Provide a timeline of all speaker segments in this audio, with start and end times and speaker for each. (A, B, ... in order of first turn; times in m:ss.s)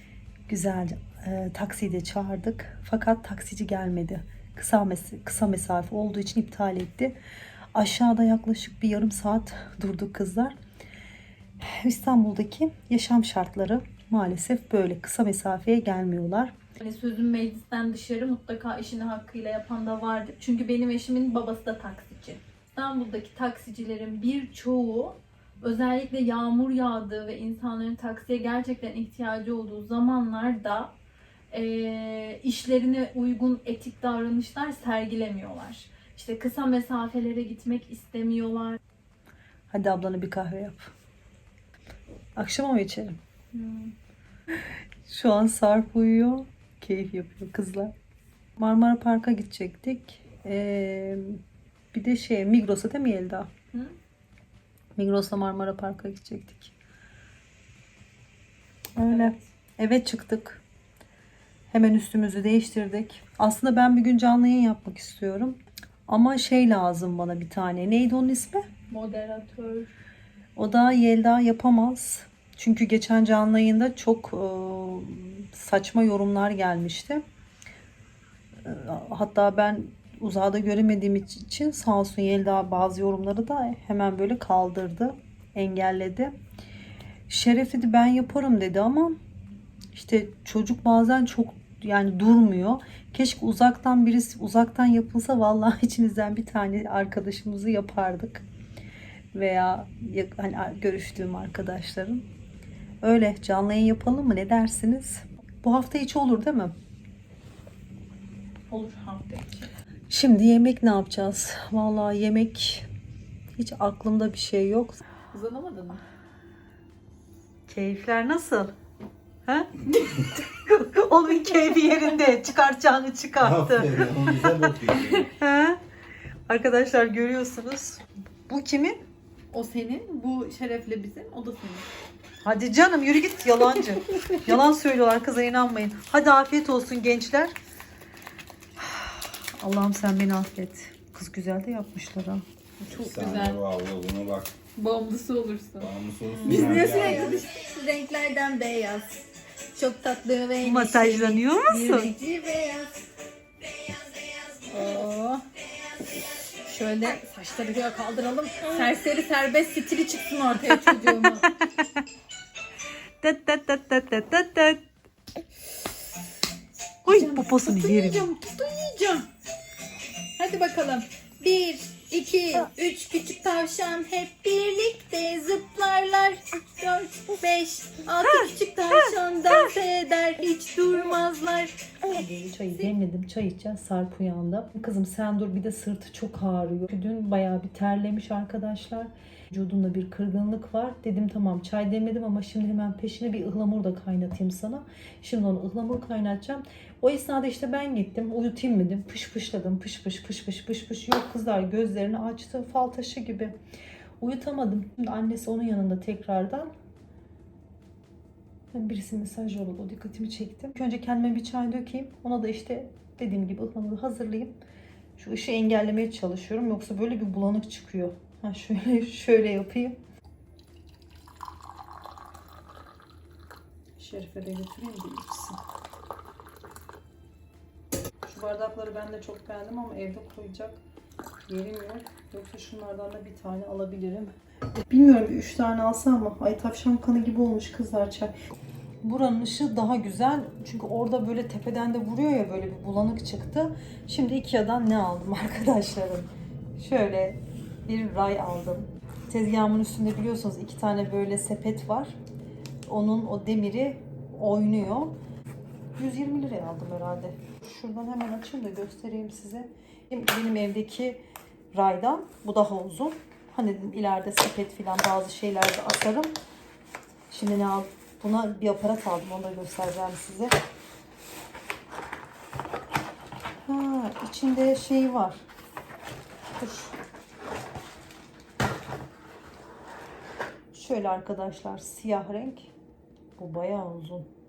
0:00.5-0:07.2 A
0:07.7-0:10.6 A
0:11.6-0:16.5 A
0:16.8-0:30.9 B
0:31.5-0:38.8 B
0:39.7-0:40.9 A
0:42.4-0:43.2 A
0:43.5-0:43.9 B
0:45.1-0:47.9 A
0:48.6-0:51.4 A
0:51.9-0:53.5 A
0:55.0-0:56.7 A
0:59.0-1:00.6 A
0:59.0-0:59.4 B
1:01.7-1:08.7 A
1:08.9-1:09.9 B
1:10.6-1:17.2 A
1:18.6-1:26.3 A
1:27.3-1:29.2 A
1:29.9-1:38.5 A
1:39.3-1:42.3 A
1:43.0-1:46.8 A
1:48.7-1:49.7 B
1:50.1-1:52.9 A
1:53.6-1:55.0 A
1:55.3-1:56.0 B
1:57.7-1:58.7 A
2:00.3-2:04.3 A
2:03.4-2:05.3 C
2:05.3-2:05.8 A
2:06.5-2:09.0 A
2:09.5-2:11.9 B
2:12.4-2:17.6 A
2:18.8-2:22.4 A
2:22.8-2:23.6 B
2:22.8-2:24.5 C
2:24.8-2:29.2 B
2:25.8-2:27.5 C
2:29.8-2:33.0 B
2:30.6-2:32.1 A
2:34.7-2:35.4 B
2:36.6-2:41.5 B
2:40.7-2:41.5 A
2:43.2-2:44.8 A
2:47.0-2:48.2 A
2:47.1-2:49.3 B
2:50.4-3:01.8 B
3:02.1-3:23.6 A
3:24.2-3:26.7 A
3:28.7-3:34.6 A
3:35.2-3:40.0 A
3:44.0-3:45.6 A
3:48.2-3:50.8 A
3:51.5-3:54.3 A
3:54.9-3:58.3 A
3:59.0-4:12.2 A
4:12.9-4:15.2 A
4:16.0-4:21.2 A
4:21.7-4:26.4 A
4:27.3-4:30.6 A
4:33.7-4:35.4 A
4:40.7-4:42.7 A
4:43.4-4:44.3 A